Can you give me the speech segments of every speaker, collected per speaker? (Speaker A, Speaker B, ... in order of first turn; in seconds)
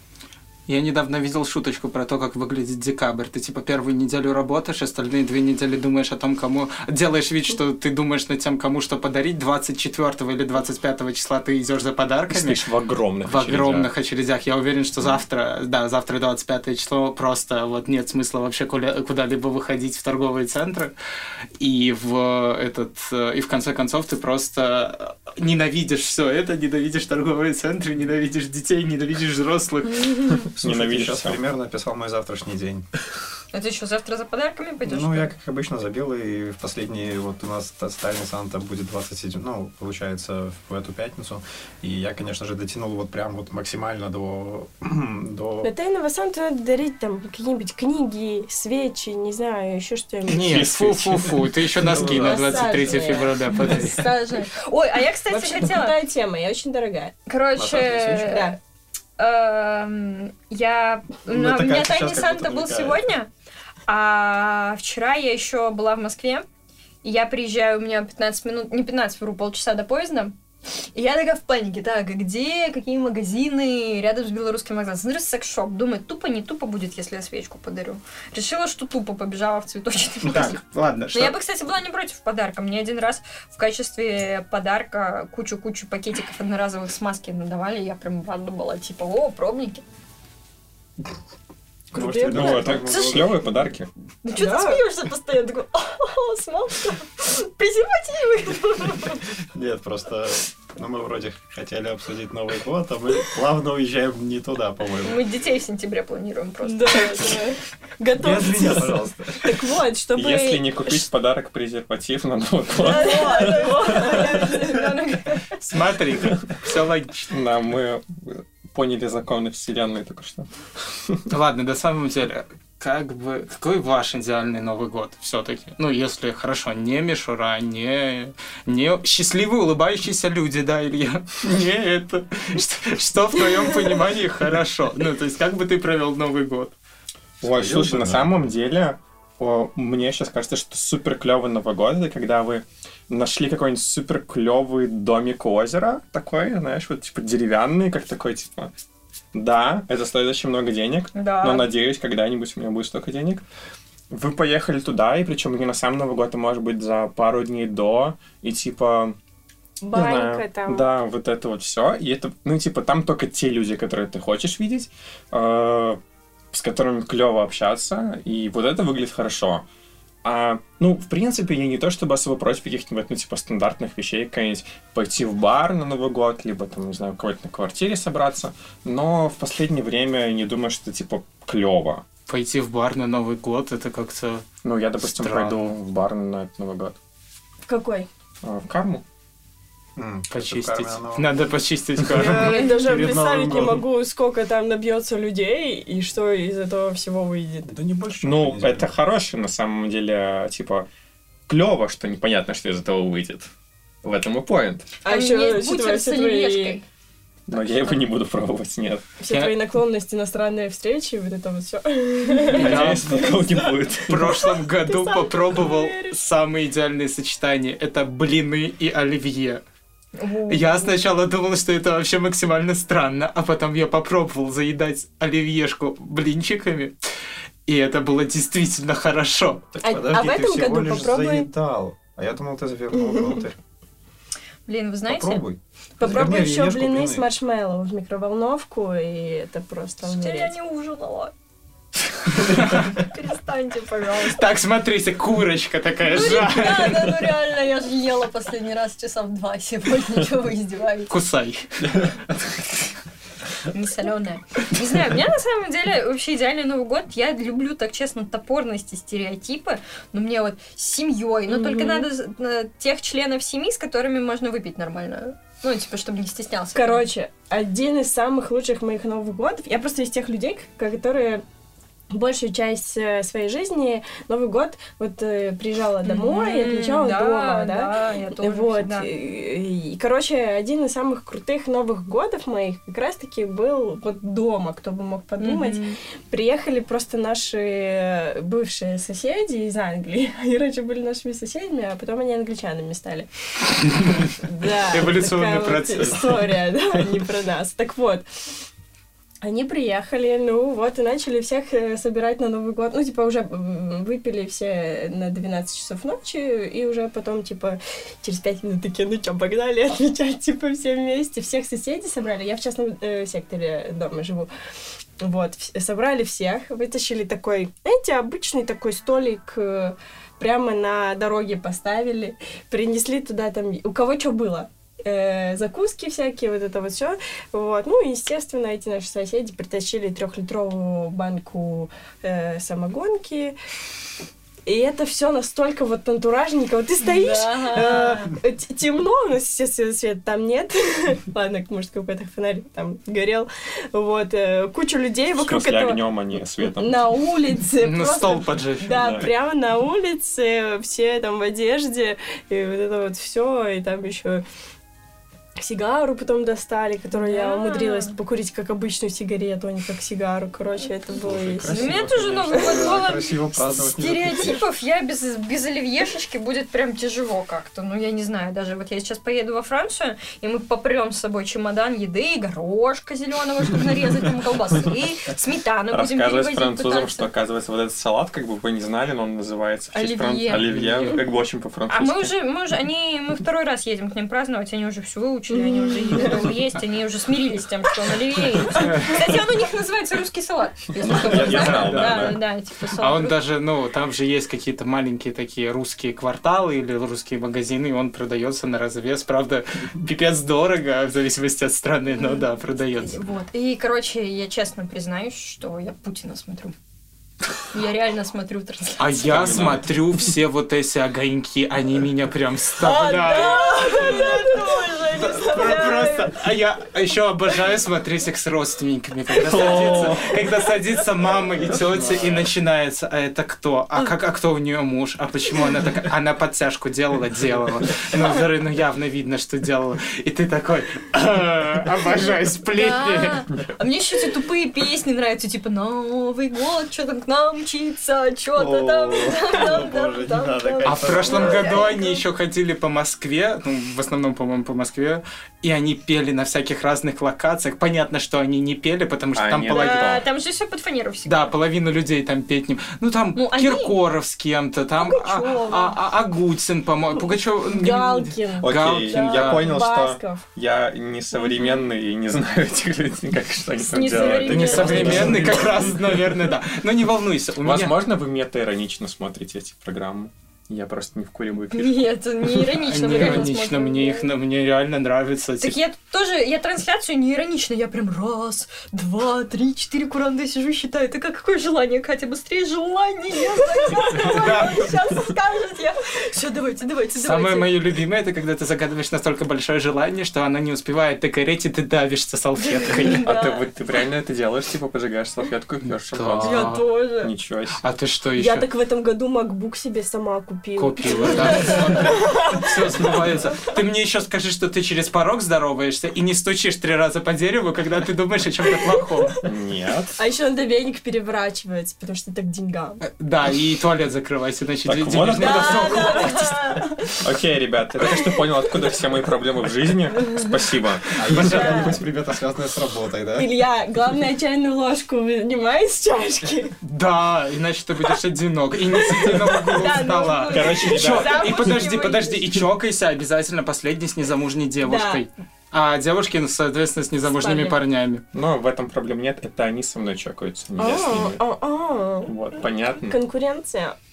Speaker A: 0.7-12.6, 13.3-20.9, 21.6-30.4, 50.3-54.1, 80.3-81.4, 108.2-108.9, 115.7-117.3, 121.3-136.7, 182.3-184.5, 185.0-185.6, 190.3-192.6, 209.3-209.6, 212.5-213.0, 214.1-219.6, 220.5-226.9, 227.7-229.7, 244.3-247.1, 251.1-251.7, 294.9-296.2, 347.8-349.0, 380.6-381.2, 388.8-389.2, 391.2-392.4, 393.0-403.2, 409.0-414.4, 415.1-433.4, 440.9-450.1, 451.2-459.8, 464.4-467.9, 472.6-475.8, 484.2-484.9, 487.2-493.3, 496.1-496.9, 497.8-498.7, 500.8-509.4, 513.0-516.8, 526.8-538.2
Speaker B: 12.3-13.9, 30.6-31.4, 50.3-51.7, 92.3-93.9, 110.2-114.4, 117.2-120.5, 137.4-148.7, 149.3-153.4, 154.1-159.2, 159.9-166.0, 166.5-169.7, 170.2-182.0, 184.6-187.0, 188.4-189.0, 198.2-200.9, 201.5-203.5, 204.0-204.9, 207.5-209.1, 212.5-214.4, 296.0-297.2, 345.4-347.1, 348.9-349.3, 375.9-382.3, 391.0-392.4, 409.2-409.9, 419.4-420.4, 449.3-450.2, 458.6-466.4, 467.6-472.1, 493.1-497.8, 509.4-510.2, 514.8-516.5, 517.2-522.0, 530.5-531.9, 538.3-541.4, 542.2-543.2
Speaker C: 30.5-32.9, 34.9-45.7, 51.8-52.7, 57.6-58.4, 61.3-63.1, 91.9-93.4, 99.5-105.2, 108.6-109.5, 137.4-138.4, 190.0-191.6, 192.2-193.8, 197.7-198.9, 229.7-233.6, 235.1-237.3, 361.2-364.6, 438.6-441.8, 465.0-465.4, 521.2-523.5
Speaker D: 33.5-35.3, 53.6-56.0, 57.3-58.6, 59.2-63.3, 63.9-66.5, 67.0-70.4, 70.9-80.6, 81.1-89.8, 92.9-93.3, 94.2-99.2, 105.0-107.2, 112.8-115.6, 151.2-151.7, 205.1-206.8, 220.2-220.9, 234.7-235.4, 240.0-241.3, 242.9-244.5, 246.1-251.1, 253.7-267.1, 276.0-279.1, 285.4-286.0, 337.0-338.4, 357.1-358.2, 361.7-377.3, 379.9-381.1, 381.9-393.4, 402.1-402.5, 403.0-406.7, 407.7-409.7, 412.9-414.8, 432.7-442.2, 449.7-451.5, 453.4-454.0, 463.8-465.6, 471.7-474.3, 475.6-487.8
Speaker E: 45.6-50.7, 51.9-53.8, 55.3-57.1, 58.3-58.6, 91.9-92.7, 94.4-94.8, 106.6-111.0, 112.8-114.9, 159.8-160.8, 187.7-188.1, 192.1-197.7, 205.0-206.8, 209.2-216.2, 229.8-231.5, 236.0-240.6, 261.5-262.1, 266.7-271.4, 272.1-298.2, 299.4-314.5, 315.2-333.6, 334.6-346.0, 346.6-354.4, 355.6-361.8, 385.5-386.4, 412.8-416.4, 419.5-420.5, 455.0-456.0, 457.2-460.4, 464.2-465.6, 484.2-484.9, 492.9-493.6, 496.4-497.3, 498.4-503.7, 510.2-513.0, 515.4-517.2, 518.1-518.4, 521.3-522.0, 523.4-526.8, 528.9-532.6, 534.8-535.2, 537.2-537.8, 540.8-542.4, 543.0-544.0